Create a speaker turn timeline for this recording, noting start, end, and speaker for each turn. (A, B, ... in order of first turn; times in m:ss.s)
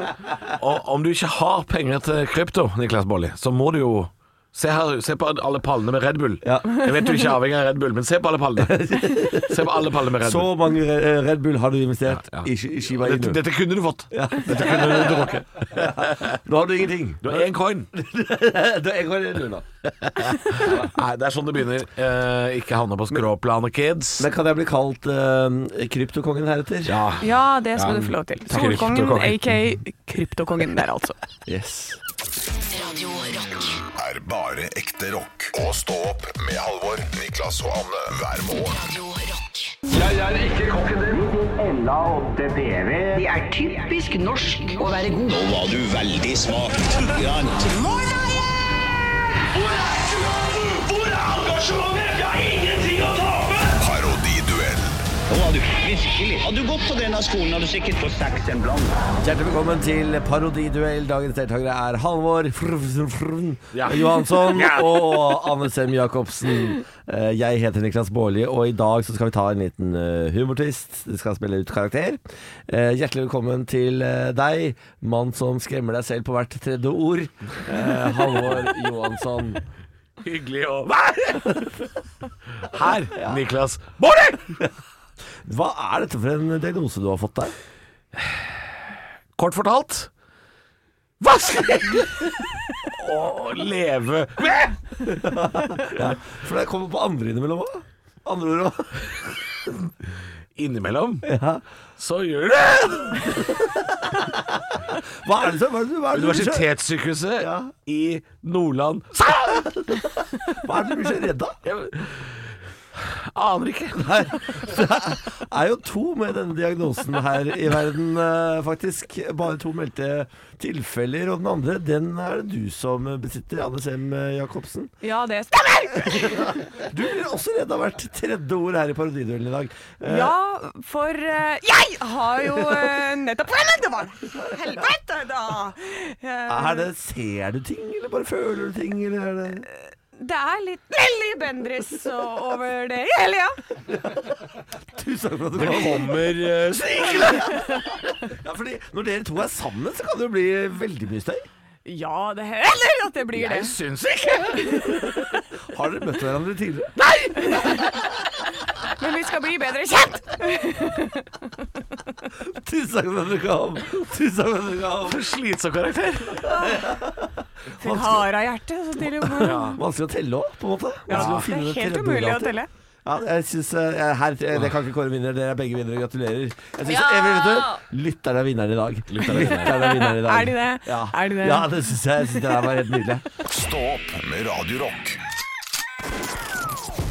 0:00.5-0:10.5 A
0:06.4-0:06.8 B
0:08.6-0:13.4 B
0:12.1-0:16.4 A
0:14.1-0:19.7 B
0:17.2-0:17.9 A
0:20.0-0:24.3 A
0:20.5-0:20.9 B
0:24.2-0:27.0 B
0:26.9-0:29.5 A
0:27.2-0:31.2 C
0:31.4-0:32.0 B
0:32.6-0:33.8 D
0:34.0-0:38.8 E
0:38.5-0:39.8 D
0:39.9-0:47.8 F
0:47.6-0:48.1 D
0:49.5-0:53.8 F
0:53.8-0:55.0 E
0:55.3-0:59.0 F
0:59.2-1:19.6 B
1:03.7-1:05.4 A
1:20.2-1:21.7 A
1:21.4-1:21.7 B
1:22.6-1:24.6 A
1:23.1-1:23.4 B
1:25.4-1:27.5 B
1:29.4-1:30.1 A
1:31.2-1:35.1 A
1:35.0-1:39.2 B
1:40.6-1:41.3 A
1:41.2-1:41.6 B
1:42.0-1:43.5 A
1:43.1-1:46.7 B
1:46.1-1:50.0 A
1:47.4-1:47.7 B
1:49.5-1:51.6 B
1:51.6-1:54.8 A
1:54.0-2:04.9 B
2:05.0-2:06.6 C
2:06.0-2:10.3 B
2:10.0-2:16.9 C
2:12.5-2:12.8 B
2:16.5-2:19.7 B
2:19.8-2:23.6 C
2:23.9-2:31.4 B
2:25.5-2:27.6 A
2:31.8-2:33.8 C
2:33.4-2:35.1 A
2:34.6-2:34.9 B
2:35.7-2:37.0 B
2:37.0-2:37.8 A
2:37.4-2:37.7 C
2:38.9-2:41.4 C
2:42.4-2:45.2 B
2:45.0-2:46.7 A
2:46.5-2:48.3 B
2:47.8-2:49.8 C
2:49.2-3:03.2 B
2:49.4-2:49.8 A
2:51.1-2:52.7 C
2:51.1-2:51.4 A
2:59.1-2:59.8 A
2:59.3-3:02.6 C
3:03.4-3:05.2 E